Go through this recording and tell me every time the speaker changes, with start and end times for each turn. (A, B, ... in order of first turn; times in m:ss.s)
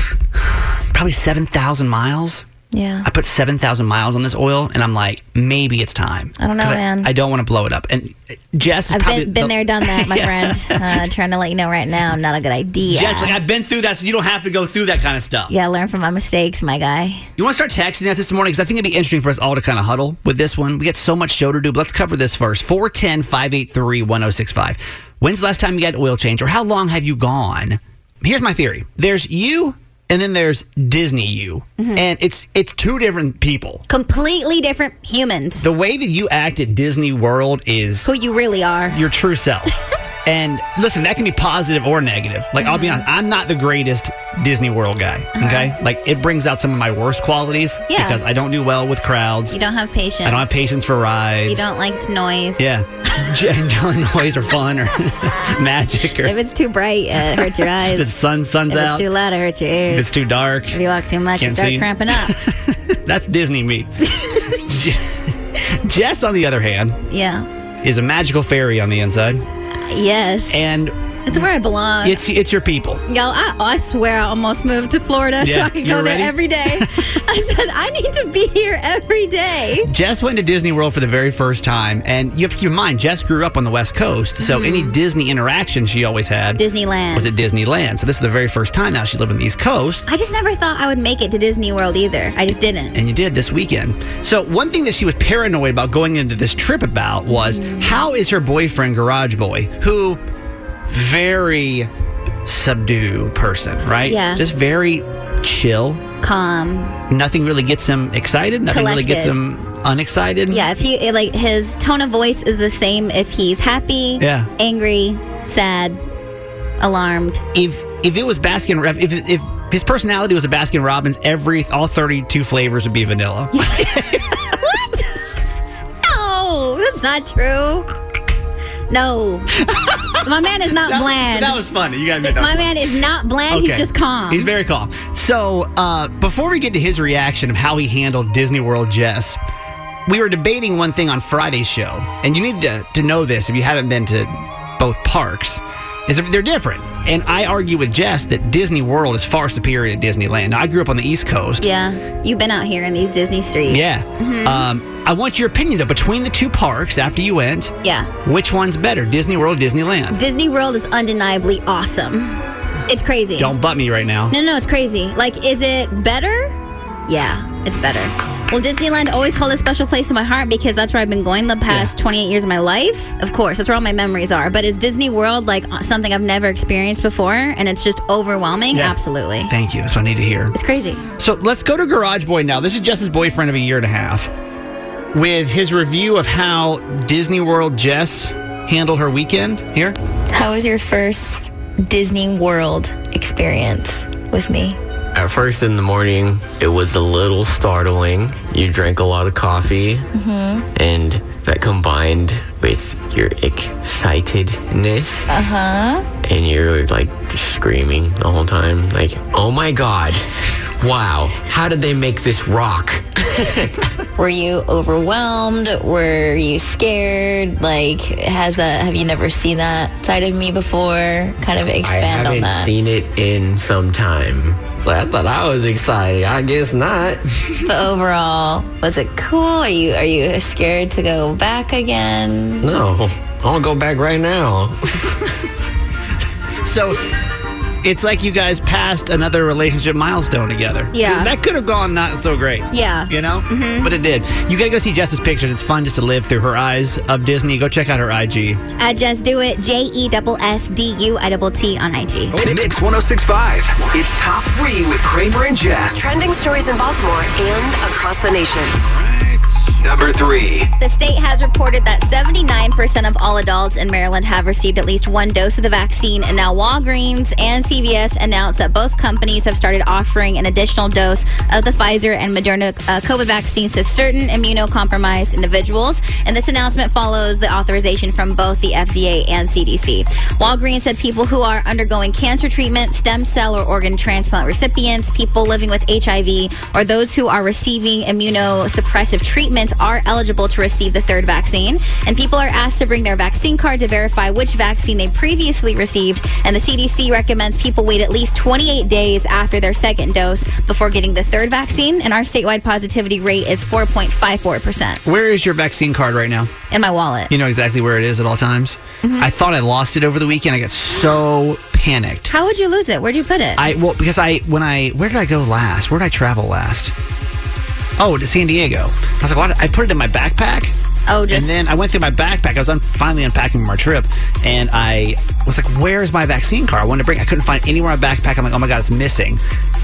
0:00.4-0:02.4 A
0:02.7-0:03.1 B
0:03.0-0:11.1 A
0:06.4-0:07.1 B
0:08.9-0:13.4 B
0:12.9-0:15.5 A
0:15.5-0:17.2 B
0:17.4-0:33.8 A
0:31.8-0:32.0 B
0:33.9-0:35.6 B
0:35.6-0:38.1 A
0:38.0-0:39.0 B
0:38.9-0:39.7 A
0:40.2-0:49.6 A
0:42.6-0:43.0 B
0:45.3-0:45.7 B
0:47.9-0:48.2 B
0:49.5-0:50.7 B
0:50.2-0:51.7 A
0:51.5-0:53.3 B
0:52.6-0:56.3 A
0:56.2-0:58.1 B
0:57.2-0:59.0 A
0:58.7-1:02.3 B
0:59.9-1:00.8 A
1:01.4-1:07.0 A
1:04.1-1:04.6 B
1:07.1-1:07.5 B
1:07.8-1:09.4 A
1:09.8-1:12.2 B
1:10.5-1:11.4 A
1:12.0-1:13.0 A
1:13.1-1:19.9 B
1:15.4-1:17.1 A
1:19.8-1:26.6 A
1:24.4-1:25.0 B
1:26.6-1:27.3 B
1:27.1-1:30.1 A
1:30.1-1:33.0 B
1:32.9-1:40.2 A
1:37.3-1:38.0 B
1:40.9-1:41.9 A
1:42.4-1:46.0 A
1:44.0-1:44.4 B
1:46.2-1:47.0 B
1:47.1-1:50.6 A
1:48.7-1:49.3 B
1:50.5-1:56.0 B
1:54.2-1:54.5 A
1:56.8-1:57.4 B
1:57.5-2:04.6 A
2:03.5-2:07.8 B
2:08.9-2:09.5 B
2:09.6-2:12.8 A
2:10.2-2:11.6 B
2:12.2-2:14.5 B
2:13.5-2:19.4 A
2:20.1-2:31.6 A
2:31.6-2:34.6 B
2:33.7-2:40.2 A
2:37.8-2:38.1 B
2:40.1-2:43.5 B
2:43.4-2:44.3 A
2:44.3-2:46.5 B
2:47.1-2:59.5 B
2:59.5-3:00.5 A
3:00.5-3:01.0 B
3:01.2-3:04.3 A
3:05.1-3:10.0 A
3:10.3-3:14.8 C
3:15.1-3:20.1 D
3:20.1-3:20.6 C
3:20.7-3:25.3 D
3:25.3-3:26.1 C
3:26.2-3:30.2 D
3:30.8-3:33.7 D
3:34.2-3:42.7 C
3:41.8-3:47.2 D
3:47.6-3:52.7 C
3:52.6-3:55.0 D
3:56.6-3:57.0 A
3:57.8-4:08.6 A
4:00.9-4:01.3 B
4:02.7-4:03.9 B
4:08.8-4:12.4 B
4:12.3-4:12.6 A
4:12.4-4:16.1 E
4:16.0-4:18.8 F
4:18.9-4:19.4 A
4:19.8-4:20.7 E
4:20.8-5:05.0 B
5:05.0-5:06.5 A
5:06.7-5:07.3 B
5:07.3-5:12.3 A
5:09.0-5:09.3 B
5:12.3-5:13.6 B
5:13.6-5:16.9 A
5:18.0-5:20.7 A
5:21.1-5:21.7 B
5:21.3-5:29.4 A